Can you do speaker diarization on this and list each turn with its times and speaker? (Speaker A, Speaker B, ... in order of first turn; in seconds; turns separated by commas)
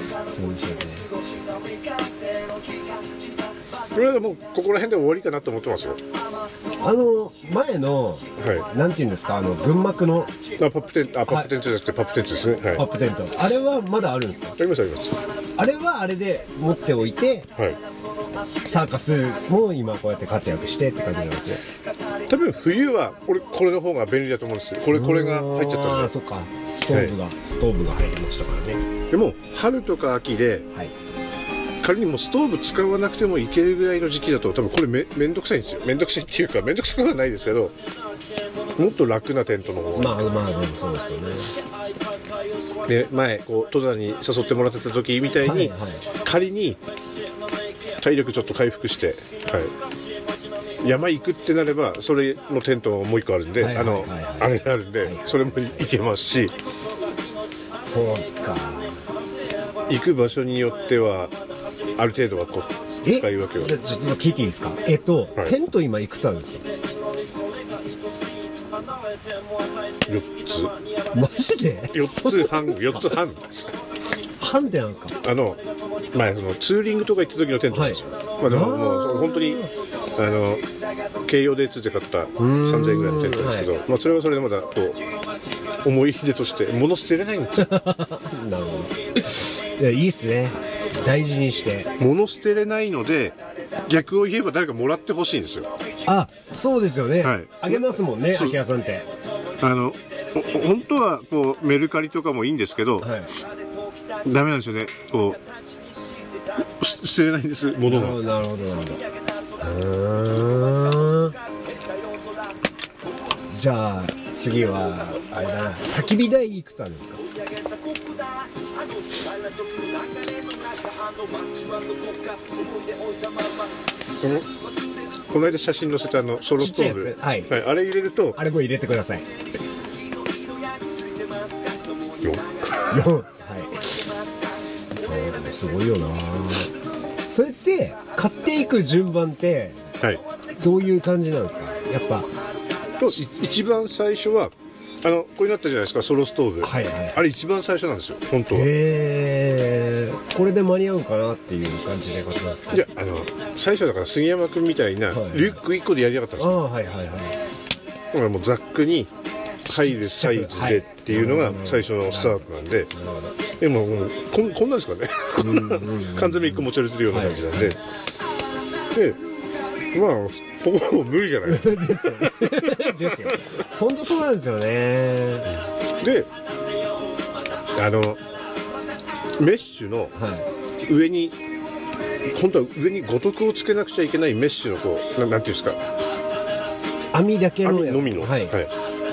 Speaker A: 0.3-1.1, Speaker B: 3.9-6.0, Speaker A: 6.8-10.3, Speaker B: 8.4-8.7, Speaker B: 10.6-12.8, Speaker A: 12.7-14.6, Speaker B: 14.6-15.2, Speaker A: 15.6-17.5, Speaker A: 18.6-21.6, Speaker B: 22.3-26.1, Speaker A: 24.9-28.9, Speaker B: 26.9-27.1, Speaker B: 29.1-30.7, Speaker B: 31.8-37.8, Speaker B: 38.8-40.4, Speaker A: 40.0-41.5, Speaker B: 42.9-46.8, Speaker A: 45.4-46.1, Speaker B: 48.0-49.7, Speaker B: 50.8-56.6, Speaker A: 53.6-55.9, Speaker A: 57.8-59.0, Speaker B: 59.9-61.3, Speaker B: 62.0-63.7, Speaker A: 63.0-66.7, Speaker B: 70.1-70.7, Speaker A: 71.1-73.2, Speaker B: 71.9-73.7, Speaker A: 74.4-75.2, Speaker B: 75.2-75.6, Speaker B: 76.1-79.7, Speaker A: 77.7-79.7, Speaker B: 80.2-80.7, Speaker B: 81.2-85.0, Speaker A: 82.4-83.7, Speaker B: 85.8-87.7, Speaker A: 87.6-91.9, Speaker B: 92.0-95.7, Speaker A: 96.0-99.1, Speaker B: 97.2-98.6, Speaker B: 99.6-103.1, Speaker A: 103.0-103.3, Speaker B: 104.2-105.4, Speaker B: 106.8-108.2, Speaker A: 107.9-109.0, Speaker A: 109.6-111.4, Speaker A: 113.5-117.2, Speaker B: 125.3-128.4, Speaker A: 126.6-127.5, Speaker A: 128.3-129.3, Speaker A: 132.9-134.2, Speaker A: 134.9-136.7, Speaker A: 137.3-139.8, Speaker A: 140.6-142.3, Speaker B: 143.0-148.7, Speaker A: 146.6-147.2, Speaker A: 148.5-152.8, Speaker B: 152.7-156.6, Speaker A: 155.1-155.6, Speaker A: 156.4-157.4, Speaker B: 158.1-159.1, Speaker B: 159.6-162.9, Speaker A: 159.7-163.4, Speaker B: 163.6-167.8, Speaker A: 165.4-167.8, Speaker B: 168.9-169.2, Speaker B: 169.9-172.8, Speaker A: 171.4-175.5, Speaker B: 175.5-176.3, Speaker B: 177.8-178.2, Speaker B: 179.4-180.2, Speaker A: 180.2-180.5, Speaker B: 180.8-181.4, Speaker B: 182.2-185.8, Speaker A: 187.1-188.6, Speaker B: 187.6-188.7